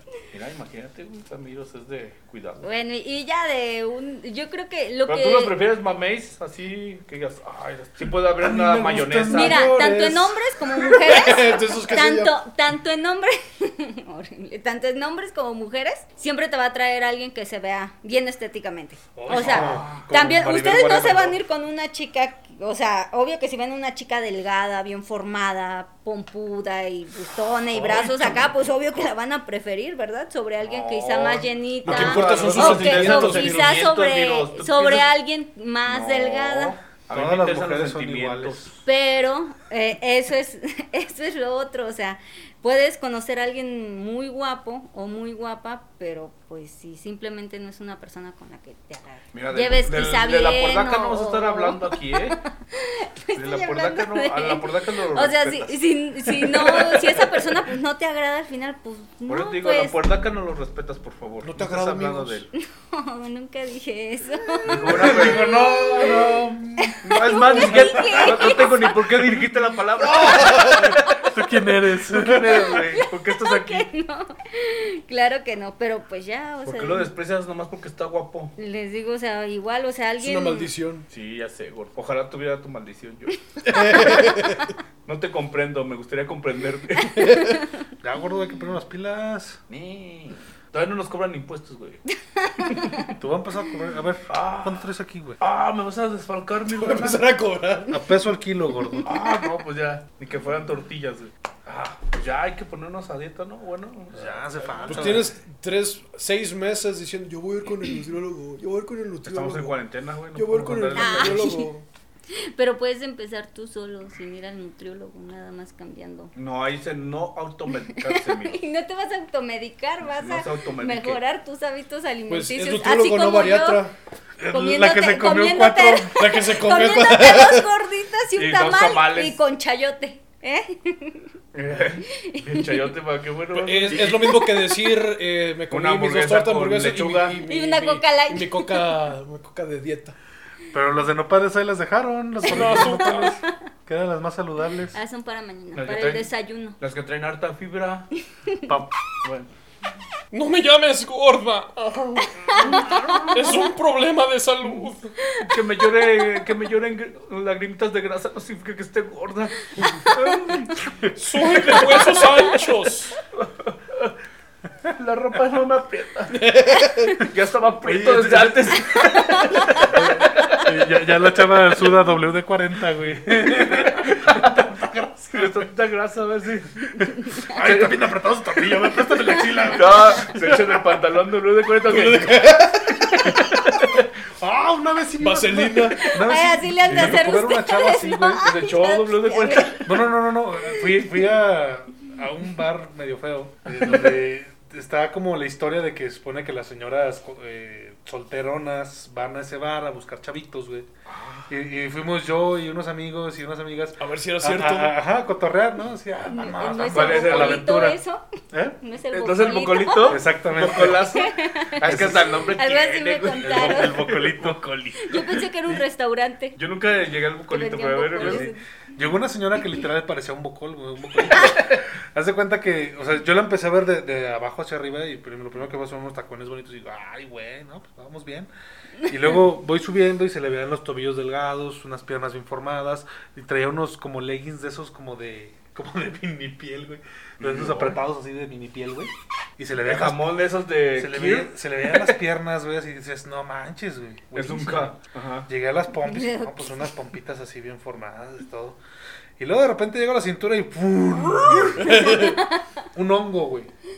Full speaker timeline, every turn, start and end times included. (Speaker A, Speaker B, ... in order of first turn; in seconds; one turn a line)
Speaker A: 0.3-2.7
Speaker B: 2.6-5.5
Speaker A: 5.1-9.7
Speaker C: 8.4-11.0
Speaker B: 9.3-36.8
Speaker D: 11.0-12.3
Speaker C: 19.2-21.4
Speaker A: 19.3-20.1
Speaker C: 27.7-29.1
Speaker A: 30.6-35.1
Speaker D: 31.9-33.7
Speaker C: 32.2-32.6
Speaker A: 35.9-38.7
Speaker C: 37.1-38.7
Speaker B: 38.9-60.0
Speaker A: 49.3-52.4
Speaker A: 53.3-57.6
Speaker A: 59.3-62.5
Speaker D: 61.4-62.4
Speaker B: 62.6-69.1
Speaker A: 64.7-65.7
Speaker C: 64.7-72.7
Speaker A: 67.0-71.2
Speaker D: 70.2-70.8
Speaker A: 71.9-73.9
Speaker B: 72.5-77.1
Speaker A: 76.6-78.5
Speaker B: 78.6-80.7
Speaker D: 80.2-81.1
Speaker A: 81.1-83.4
Speaker D: 83.7-84.6
Speaker B: 83.8-84.4
Speaker A: 85.1-87.5
Speaker B: 87.0-87.6
Speaker C: 88.0-89.6
Speaker A: 89.7-92.0
Speaker B: 92.4-93.1
Speaker A: 92.7-93.1
Speaker C: 93.2-95.4
Speaker A: 94.3-94.9
Speaker A: 95.4-97.2
Speaker D: 96.7-98.0
Speaker C: 97.9-99.1
Speaker A: 99.0-105.3
Speaker C: 104.1-105.3
Speaker D: 104.9-109.8
Speaker A: 109.2-111.7
Speaker D: 110.3-111.8
Speaker B: 110.9-111.7
Speaker B: 112.3-116.3
Speaker A: 116.3-118.6
Speaker B: 117.9-123.9
Speaker A: 120.0-121.2
Speaker D: 122.3-123.9
Speaker C: 124.4-126.3
Speaker B: 124.5-131.2
Speaker D: 126.1-127.7
Speaker A: 128.3-129.4
Speaker A: 131.5-134.5
Speaker B: 132.2-132.8
Speaker D: 133.6-140.2
Speaker B: 134.0-134.5
Speaker A: 135.7-137.4
Speaker B: 137.4-138.9
Speaker C: 140.7-145.0
Speaker D: 142.4-143.3
Speaker B: 142.6-143.3
Speaker B: 144.9-146.8
Speaker A: 145.7-146.3
Speaker A: 146.8-148.1
Speaker C: 148.7-148.9
Speaker A: 149.2-149.5
Speaker D: 150.3-152.6
Speaker A: 152.5-153.6
Speaker B: 152.5-153.6
Speaker D: 153.3-155.1
Speaker A: 154.6-154.9
Speaker B: 155.3-155.6
Speaker A: 155.4-160.7
Speaker D: 161.2-163.2
Speaker A: 161.5-162.2
Speaker A: 163.3-164.1
Speaker A: 164.9-166.6
Speaker D: 166.4-167.1
Speaker A: 167.1-170.6
Speaker C: 167.8-169.1
Speaker B: 169.4-169.8
Speaker C: 169.8-175.7
Speaker A: 173.7-174.7
Speaker A: 175.3-176.7
Speaker C: 177.4-180.8
Speaker A: 177.5-178.0
Speaker A: 179.7-182.5
Speaker D: 181.9-183.7
Speaker A: 183.6-184.1
Speaker C: 184.4-188.5
Speaker D: 185.2-186.1
Speaker B: 186.1-189.9
Speaker A: 186.8-187.4
Speaker A: 188.4-189.9
Speaker C: 189.8-200.9
Speaker A: 193.8-194.1
Speaker A: 201.1-201.5
Speaker C: 201.5-208.0
Speaker D: 204.0-205.0
Speaker B: 206.3-208.2
Speaker A: 206.8-207.8
Speaker C: 208.5-208.8
Speaker B: 208.8-210.2
Speaker A: 209.1-215.8
Speaker C: 210.1-211.2
Speaker B: 210.9-214.0
Speaker C: 211.8-212.5
Speaker C: 213.4-214.6
Speaker B: 215.0-216.6
Speaker A: 216.6-218.5
Speaker B: 217.5-218.6
Speaker C: 218.2-228.5
Speaker A: 221.2-221.9
Speaker C: 229.1-240.2
Speaker A: 237.4-238.0
Speaker A: 239.8-242.2
Speaker C: 240.9-248.8
Speaker A: 244.3-245.5
Speaker B: 246.0-246.8
Speaker C: 249.4-252.2
Speaker D: 251.8-252.3
Speaker B: 251.8-252.4
Speaker C: 252.9-253.7